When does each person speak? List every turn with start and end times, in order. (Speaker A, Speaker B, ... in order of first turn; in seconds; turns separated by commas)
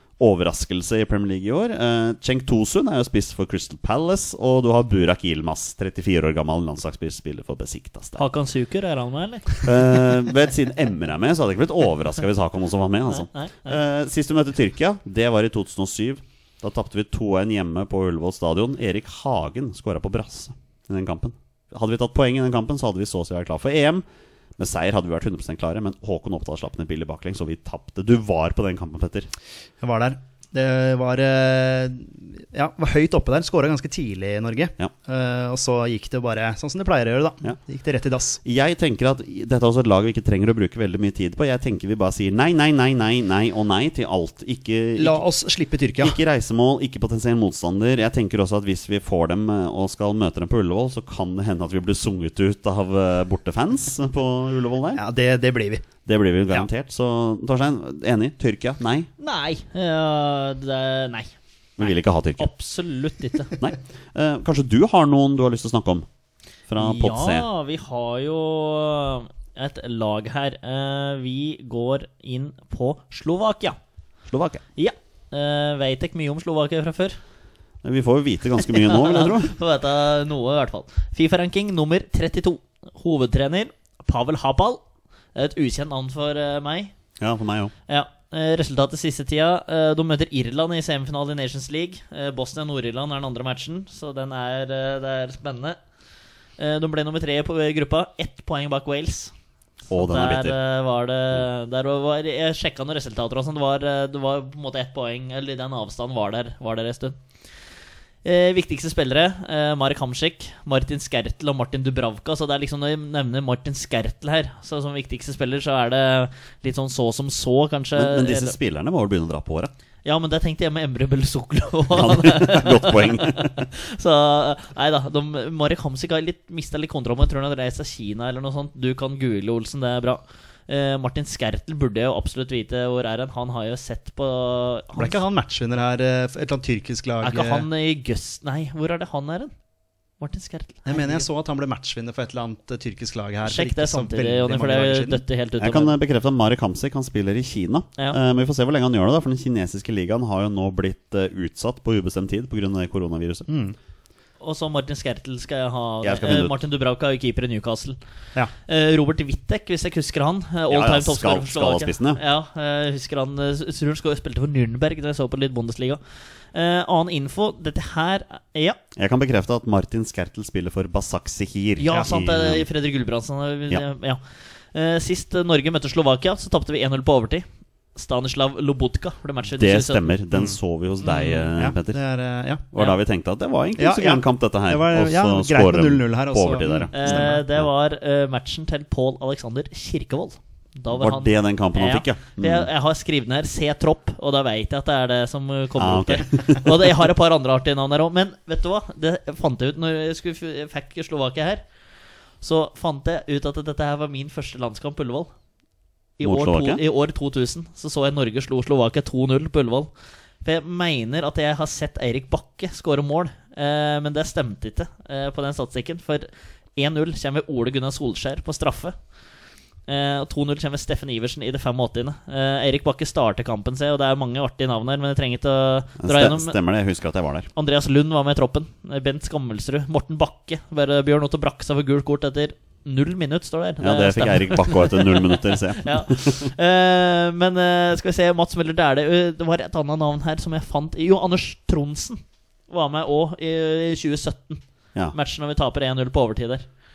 Speaker A: 0.2-8.2, Speaker B: 8.2-9.7, Speaker A: 9.6-24.1, Speaker B: 13.1-13.8, Speaker A: 24.6-29.3, Speaker C: 29.8-38.4, Speaker A: 38.4-45.2, Speaker C: 45.0-46.2, Speaker A: 46.0-55.0, Speaker C: 55.0-55.9, Speaker A: 56.0-59.1, Speaker B: 59.2-61.3, Speaker A: 61.8-62.5, Speaker B: 62.4-63.5, Speaker A: 63.6-66.1, Speaker A: 66.7-67.5, Speaker B: 66.8-73.8, Speaker A: 74.3-74.6, Speaker B: 74.8-77.2, Speaker A: 77.8-79.5, Speaker B: 78.7-84.8, Speaker B: 85.3-86.9, Speaker A: 87.2-87.7, Speaker B: 87.9-95.8, Speaker B: 96.6-99.3, Speaker A: 99.9-100.6, Speaker B: 99.9-107.2, Speaker B: 108.2-118.5, Speaker A: 118.0-119.7, Speaker B: 120.0-135.2, Speaker A: 121.9-123.7, Speaker C: 135.0-137.7, Speaker B: 137.2-139.5, Speaker B: 140.2-141.3, Speaker C: 140.9-145.2, Speaker B: 143.4-145.9, Speaker A: 145.6-153.5, Speaker C: 153.5-153.8, Speaker B: 154.4-158.0, Speaker A: 156.0-156.6, Speaker B: 158.7-166.0, Speaker A: 160.7-162.2, Speaker B: 166.5-168.8, Speaker A: 169.0-172.7, Speaker B: 171.8-180.1, Speaker A: 179.6-182.0, Speaker C: 180.3-182.7, Speaker A: 182.7-187.7, Speaker C: 183.8-187.4, Speaker B: 186.9-201.6, Speaker A: 190.9-192.7, Speaker A: 195.8-197.0, Speaker B: 202.4-205.3, Speaker B: 206.2-209.9, Speaker A: 206.2-206.8, Speaker B: 210.4-219.0, Speaker B: 219.9-226.6, Speaker A: 226.0-227.5, Speaker B: 227.6-246.7, Speaker A: 233.8-236.5